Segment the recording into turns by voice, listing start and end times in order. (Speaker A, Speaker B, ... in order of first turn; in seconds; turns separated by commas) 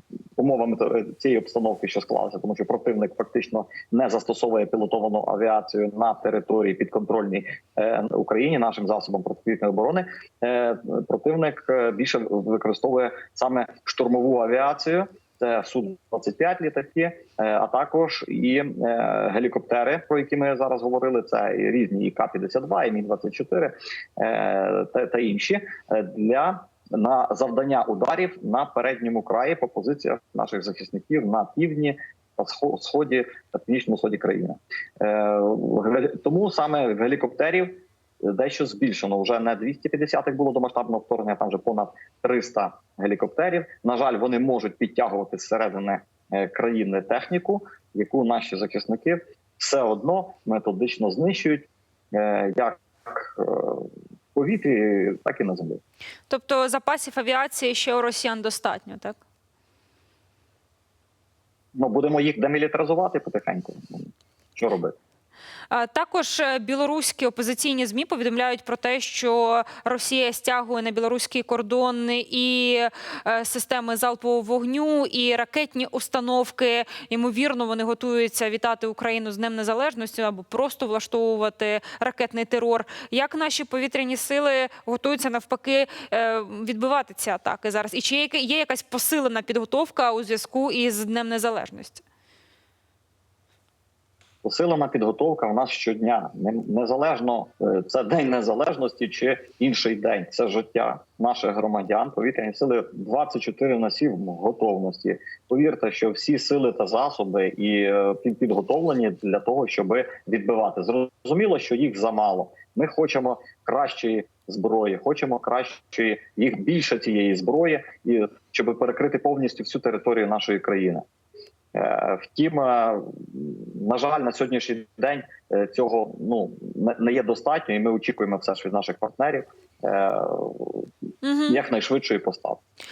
Speaker A: 0.4-55.8, Speaker B: 56.3-59.2, Speaker A: 61.8-65.0, Speaker B: 65.7-92.0, Speaker A: 94.4-121.0, Speaker A: 121.7-130.9, Speaker B: 131.2-131.6, Speaker A: 131.5-132.6